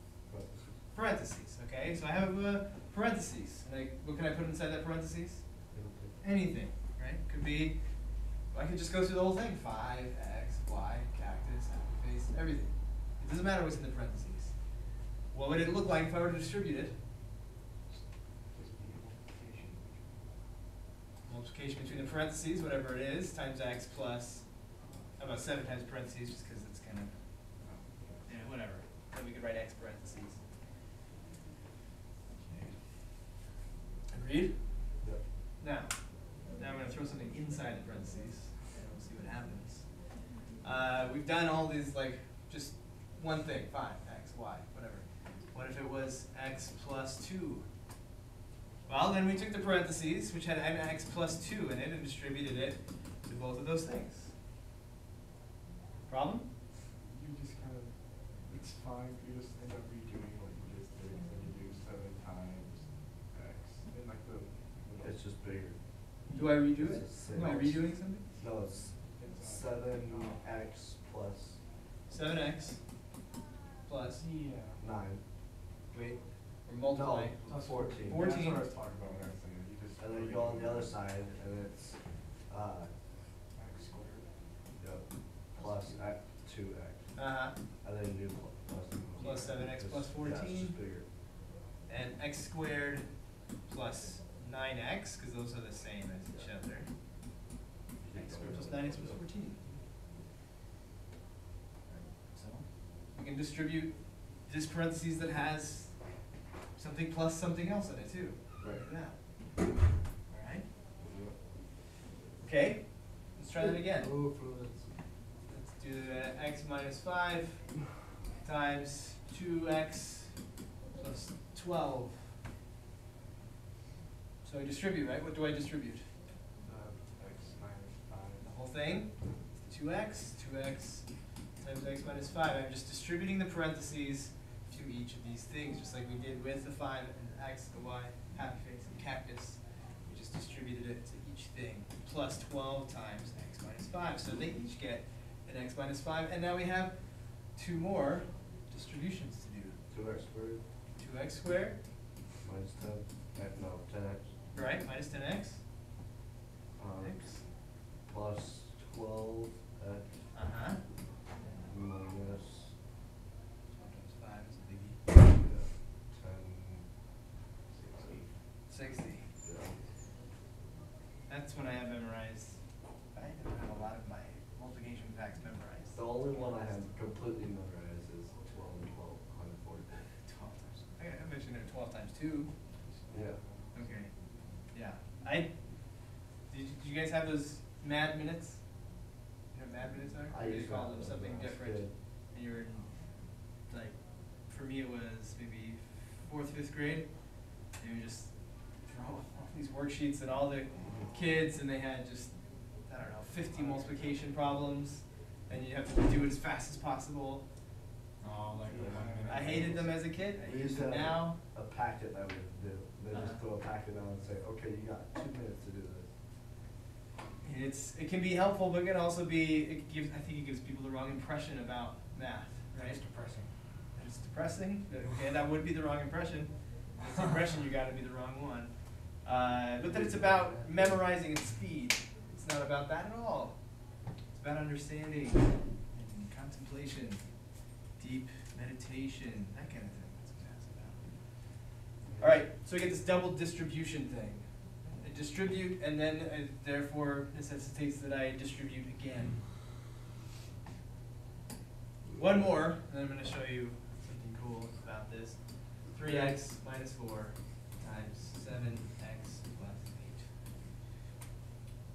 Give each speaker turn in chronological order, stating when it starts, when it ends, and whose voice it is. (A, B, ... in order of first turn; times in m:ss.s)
0:00.2-0:00.8 A
0:00.9-0:17.0 B
0:05.7-0:06.2 A
0:17.9-0:20.3 C
0:21.2-0:27.6 B
0:27.6-0:28.4 C
0:28.2-0:30.4 B
0:32.3-0:33.3 B
0:34.1-0:35.0 B
0:35.6-0:47.7 B
0:48.8-0:54.3 B
0:56.1-0:56.5 B
0:56.9-1:05.3 C
1:05.0-1:05.8 A
1:06.3-1:08.2 B
1:06.7-1:11.6 A
1:07.3-1:10.5 C
1:12.1-1:12.8 B
1:13.8-1:14.2 B
1:14.1-1:14.8 C
1:14.8-1:15.2 A
1:16.5-1:18.4 A
1:16.6-1:18.7 B
1:17.4-1:21.0 C
1:19.0-1:19.3 A
1:20.0-1:22.9 A
1:23.5-1:24.3 C
1:24.8-1:31.1 A
1:25.5-1:26.3 C
1:27.1-1:27.6 B
1:29.2-1:29.5 C
1:29.2-1:30.8 B
1:31.9-1:36.9 B
1:38.0-1:39.2 A
1:38.1-1:39.8 B
1:41.8-1:49.2 B
1:48.6-1:48.9 A
1:50.3-1:50.7 B
1:51.0-1:51.4 A
1:52.4-1:54.2 B
1:53.6-1:55.0 A
1:55.4-1:57.8 B
1:58.4-2:02.4 B
2:04.4-2:06.1 B
2:06.6-2:08.5 C
2:08.4-2:29.8 B
2:29.9-2:30.6 A
2:31.0-2:31.8 B
2:32.4-2:34.3 A
2:34.5-2:35.6 B
2:36.7-2:40.2 A
2:37.0-2:37.4 B
2:40.3-2:40.8 B
2:41.4-2:41.7 B
2:41.6-2:42.8 A
2:43.7-2:45.0 B
2:45.1-2:47.0 A
2:47.7-2:48.4 C
2:47.9-2:48.3 A
2:48.7-2:49.3 B
2:49.4-2:49.8 A
2:51.3-2:56.9 B
2:55.9-3:00.1 A
3:00.2-3:02.5 B
3:02.8-3:03.9 C
3:03.1-3:03.4 A
3:03.7-3:27.5 B
3:10.3-3:11.9 A
3:20.8-3:21.1 A
3:23.5-3:24.2 C
3:28.6-3:30.0 C
3:28.6-3:36.1 A
3:29.1-3:31.4 B
3:33.1-3:33.4 B
3:37.4-3:43.0 B
3:42.8-3:43.5 A
3:43.9-4:01.6 B
3:49.8-3:51.0 A
4:02.0-4:02.4 A
4:02.2-4:09.4 B
4:12.0-4:12.4 A
4:12.1-4:20.4 B